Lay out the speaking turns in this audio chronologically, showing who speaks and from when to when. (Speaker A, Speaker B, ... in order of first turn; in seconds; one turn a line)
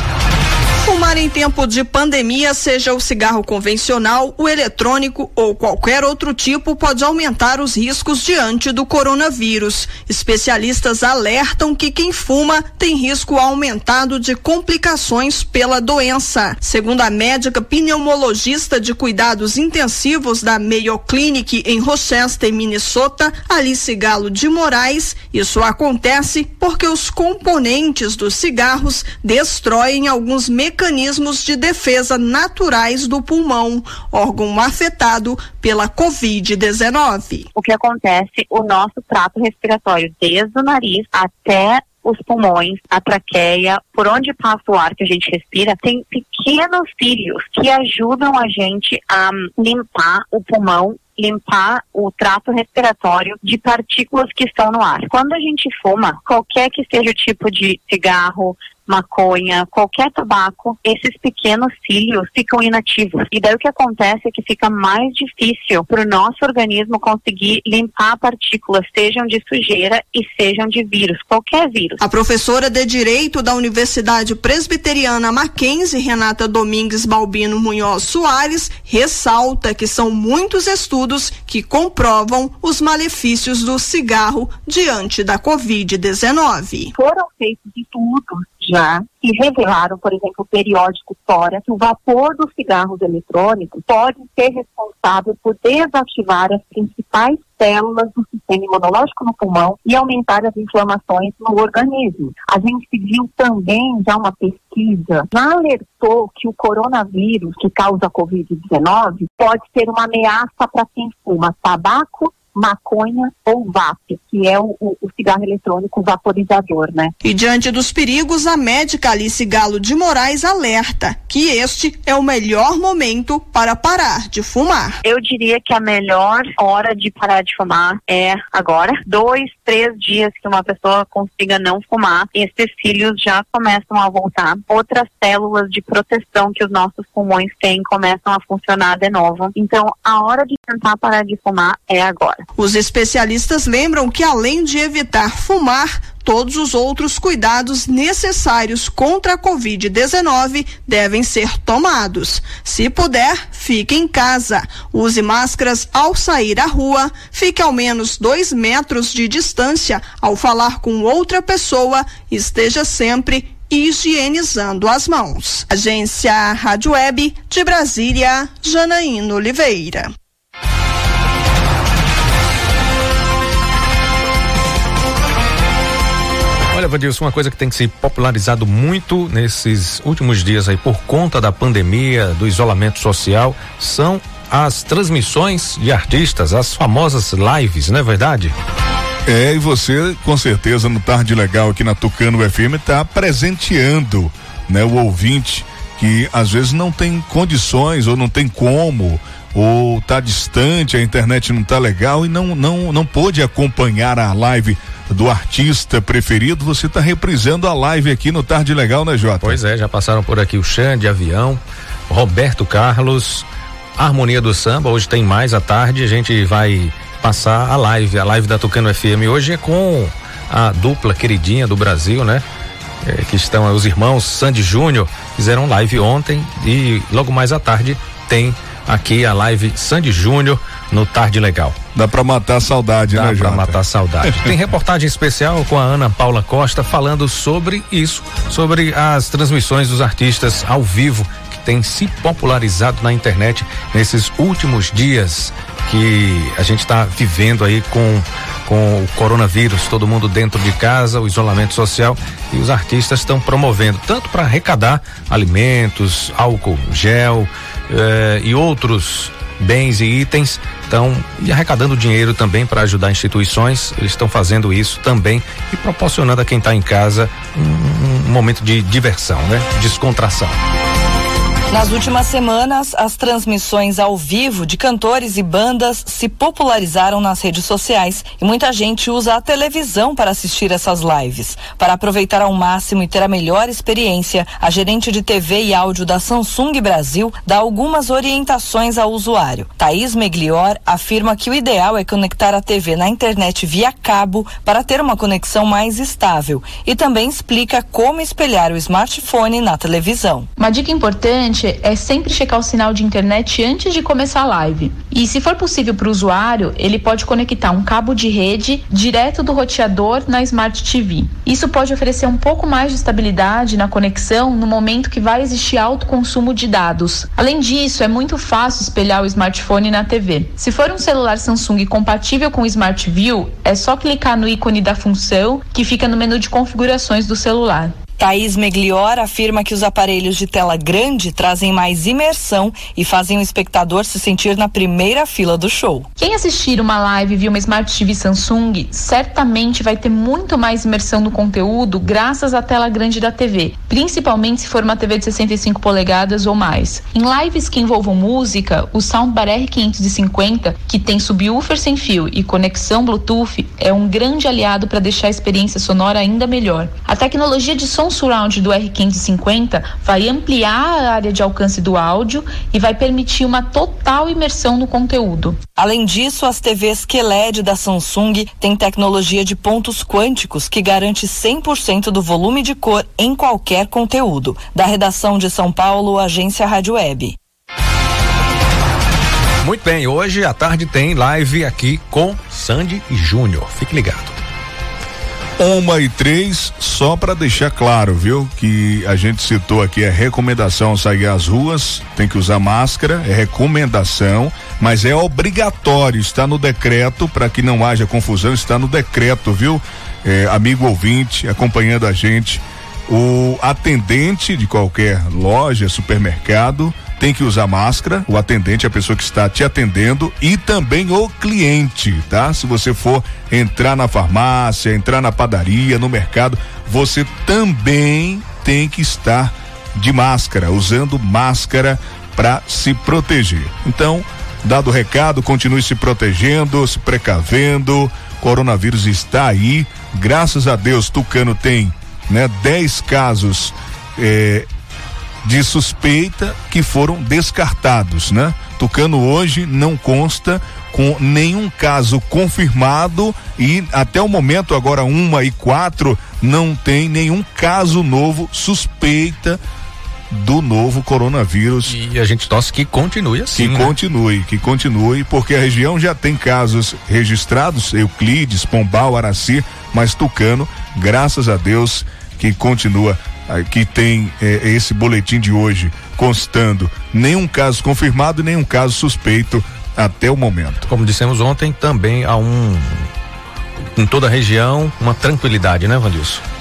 Speaker A: 0.8-37.5
Speaker B: 37.5-72.0
Speaker A: 72.0-86.9
Speaker B: 86.9-117.1
Speaker A: 117.2-125.0
Speaker B: 125.0-142.4
Speaker A: 142.6-170.1
Speaker C: 176.7-188.6
Speaker D: 189.2-209.6
Speaker C: 209.4-222.4
Speaker C: 223.0-231.8
Speaker D: 231.9-234.5
Speaker C: 233.1-270.6
Speaker E: 271.7-300.5
Speaker F: 300.6-327.9
Speaker E: 328.2-336.1
Speaker F: 336.2-365.6
Speaker E: 365.7-377.4
Speaker C: 379.6-384.4
Speaker D: 385.6-434.7
Speaker D: 435.4-449.6
Speaker D: 450.3-451.9
Speaker C: 451.9-453.9
Speaker D: 453.5-470.8
Speaker C: 470.9-473.1
Speaker C: 473.9-476.4